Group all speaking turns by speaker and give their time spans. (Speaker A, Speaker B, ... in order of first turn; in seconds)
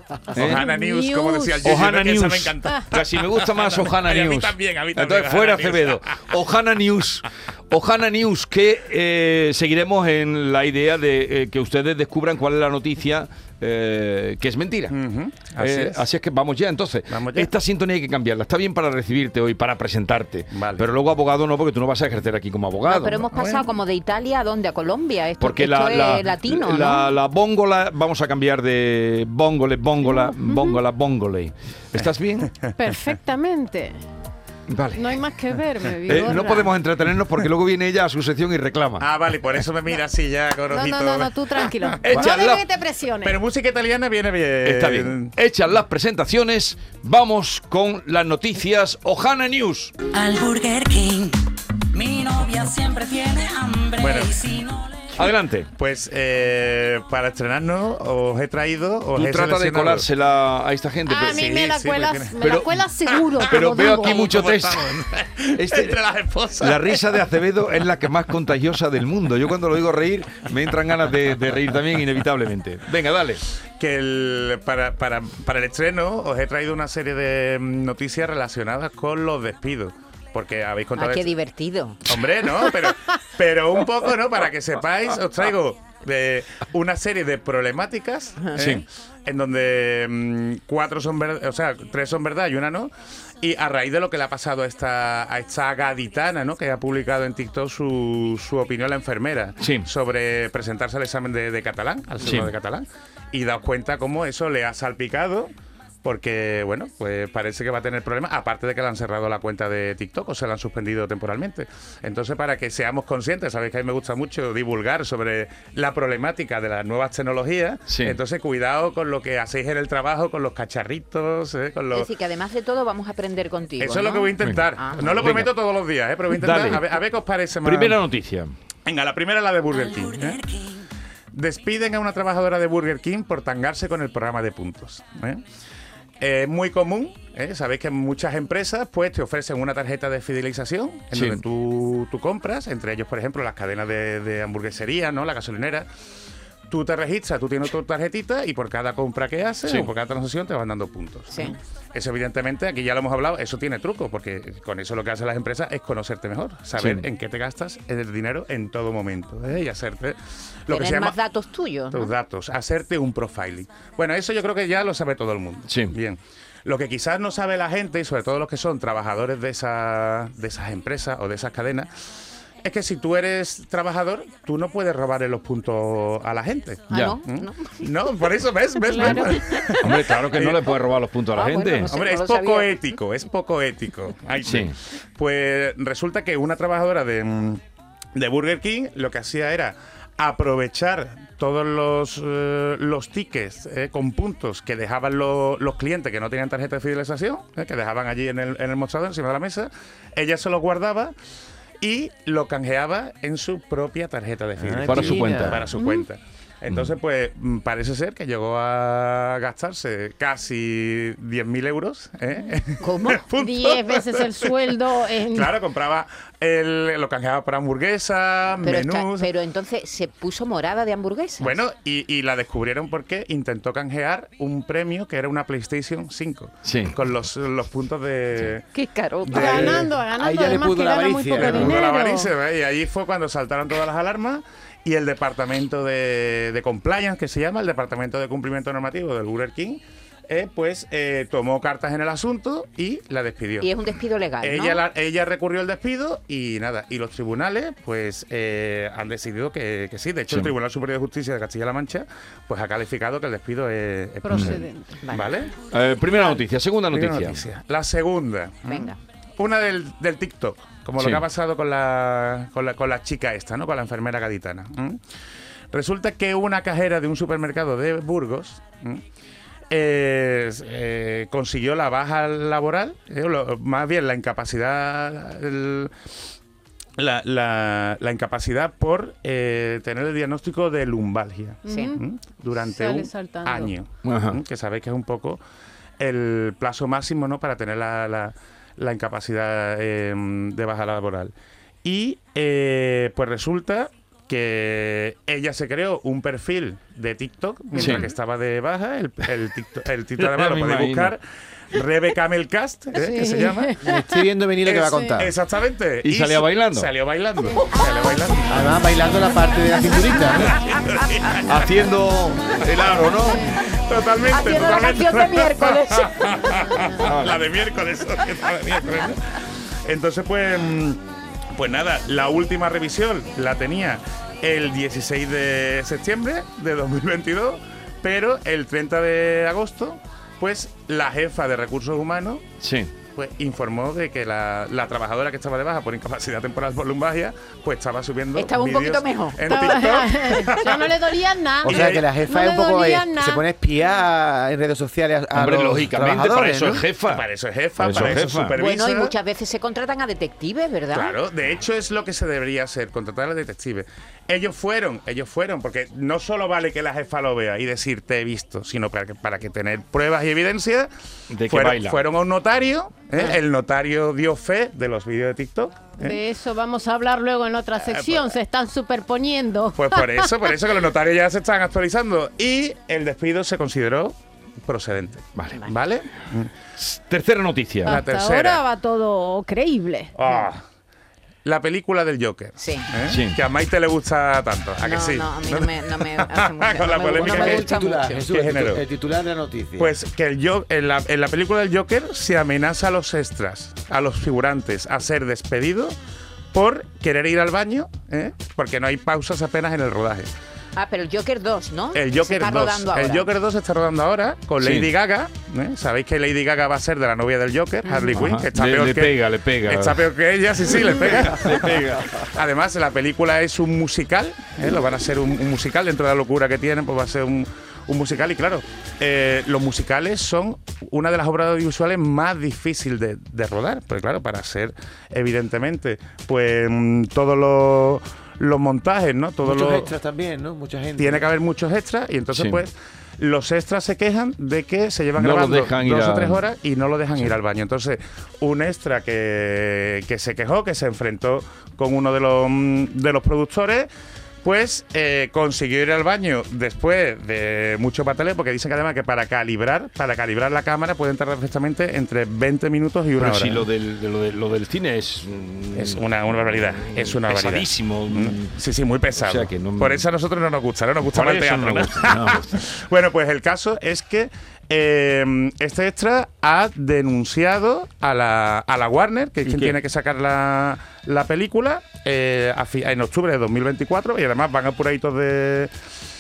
Speaker A: 0.3-6.3, 14.9-16.0, 17.1-17.5, 20.5-20.9, 23.3-23.7, 39.0-42.3, 43.2-45.3, 54.0-54.4, 55.8-60.1, 61.2-67.0, 73.8-81.3, 82.1-105.5, 106.0-122.1, 123.8-128.0, 128.9-130.6, 131.3-135.4, 136.2-145.9, 146.7-161.2, 161.9-171.9, 172.6-180.7, 181.8-187.6, 188.2-201.1, 201.8-219.3, 221.4-228.7, 229.3-229.9, 231.3-243.7, 244.4-255.5, 256.9-265.0, 265.7-269.0, 269.7-275.9, 277.0-285.4, 286.0-291.3, 291.8-301.2, 301.7-303.8, 304.6-308.6, 310.7-311.4, 313.6-321.0, 321.5-332.4, 333.1-340.9, 341.6-342.1, 347.1-349.1, 350.9-360.9, 361.5-366.2, 367.8-368.4, 369.8-376.5, 377.9-378.6, 380.1-380.6, 381.4-387.7, 388.3-388.8, 389.8-396.0, 396.5-400.3, 401.9-429.9, 431.0-443.9, 444.4-453.7, 455.7-475.7
Speaker B: 0.3-0.7, 1.6-15.0, 15.6-23.3, 25.4-32.5, 34.7-35.2, 36.1-39.1, 42.0-42.6, 44.6-50.0, 55.1-55.7, 59.1-61.5, 62.4-62.8, 63.5-65.0, 65.6-66.0, 66.6-73.4, 88.6-88.8, 99.6-99.9, 102.2-102.5, 117.9-118.2, 124.4-125.5, 126.3-127.0, 127.6-128.5, 141.1-141.4, 149.7-149.9, 156.8-157.1, 165.7-165.9, 179.8-181.9, 184.4-184.8, 204.8-205.7, 226.7-227.0, 250.3-250.5, 254.3-254.6, 255.7-257.4, 261.0-261.2, 284.0-284.4, 297.8-298.1, 300.2-301.1, 306.0-306.9, 311.4-313.5, 317.0-317.4, 332.6-332.9, 345.3-347.3, 347.8-348.6, 361.3-362.0, 376.8-378.0, 383.1-383.4, 404.6-404.9, 408.1-410.1, 410.6-412.3, 432.3-432.6, 435.2-436.4, 453.2-458.5, 459.2-460.1, 461.1-462.6, 469.4-469.8
Speaker C: 0.5-1.8, 30.2-30.8, 32.8-34.0, 34.9-36.7, 40.7-43.4, 61.1-64.3, 178.8-179.3, 205.7-206.1, 213.3-215.6, 229.3-232.3, 254.2-255.0, 256.1-256.4, 281.6-282.0, 282.5-283.8, 302.9-304.2, 304.9-305.2, 307.4-307.7, 314.4-315.1, 316.2-317.1, 339.4-343.4, 365.9-370.6, 377.9-380.5
Speaker D: 22.9-27.1, 81.0-82.0, 121.9-125.4, 151.3-151.6, 160.7-162.1, 176.9-177.9, 179.0-179.3, 181.3-182.8, 212.8-213.2, 218.6-221.6, 228.7-229.7, 243.6-244.8, 255.0-255.4, 258.7-259.0, 281.7-281.9, 307.7-308.1, 314.3-316.1, 338.4-340.0, 348.6-351.2, 382.6-382.9, 384.8-388.3, 400.8-403.3, 407.9-408.3
Speaker E: 50.1-51.4, 51.9-54.8
Speaker F: 204.6-205.7, 229.4-231.8, 303.8-305.3, 308.5-310.5, 341.6-346.9, 387.1-389.9, 429.4-431.3